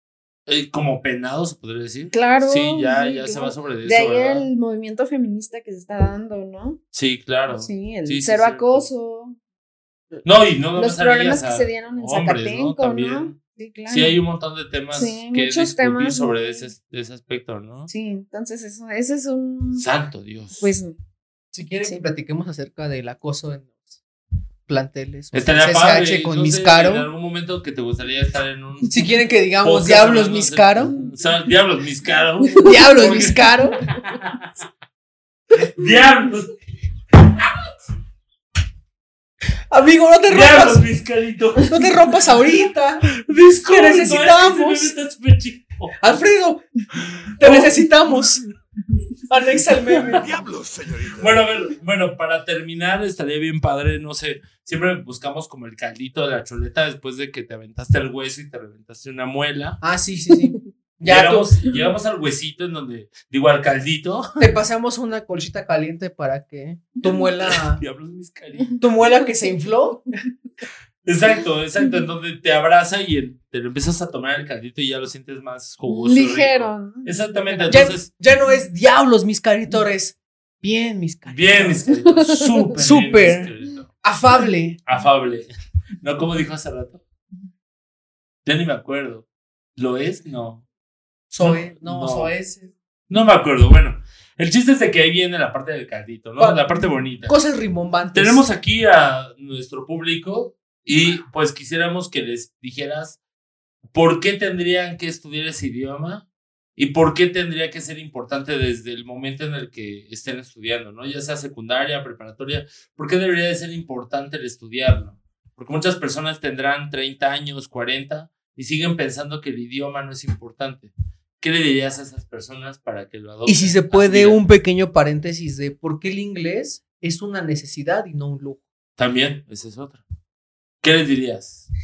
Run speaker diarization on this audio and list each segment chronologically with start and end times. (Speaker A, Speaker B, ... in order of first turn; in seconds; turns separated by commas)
Speaker A: 0.5-4.5, Speaker B: 2.1-6.8, Speaker A: 6.9-8.9, Speaker B: 7.5-9.4, Speaker A: 10.2-13.3, Speaker B: 10.7-14.2, Speaker A: 13.9-17.9, Speaker B: 14.9-16.6, Speaker B: 17.9-19.9, Speaker A: 19.8-20.7, Speaker B: 20.6-20.9, Speaker C: 21.5-24.0, Speaker C: 24.7-27.1, Speaker A: 25.3-29.0, Speaker C: 28.9-30.9, Speaker A: 29.6-34.5, Speaker B: 32.6-32.9, Speaker C: 32.6-33.8, Speaker A: 35.6-36.5, Speaker C: 39.7-40.8, Speaker A: 40.3-41.7, Speaker C: 41.7-43.0, Speaker A: 43.2-45.9, Speaker C: 43.7-44.9, Speaker C: 46.0-46.6, Speaker A: 46.9-47.8, Speaker C: 47.4-48.4, Speaker C: 49.3-50.3, Speaker A: 51.0-59.8, Speaker C: 59.8-61.5, Speaker B: 60.3-60.5, Speaker A: 61.0-64.5, Speaker C: 64.4-67.8, Speaker A: 67.8-68.8, Speaker C: 68.8-70.0, Speaker A: 71.0-78.1, Speaker B: 75.9-77.8, Speaker C: 77.7-81.8, Speaker A: 81.3-83.9, Speaker C: 82.8-84.8, Speaker A: 84.8-85.5, Speaker A: 86.0-87.0, Speaker A: 88.4-89.2, Speaker A: 89.8-90.6, Speaker C: 91.3-92.7, Speaker A: 91.4-92.3, Speaker A: 93.1-97.3, Speaker C: 96.4-98.4, Speaker A: 98.1-103.2, Speaker A: 103.9-106.2, Speaker A: 106.8-124.4, Speaker C: 123.5-128.6, Speaker A: 129.0-130.0, Speaker A: 130.8-131.7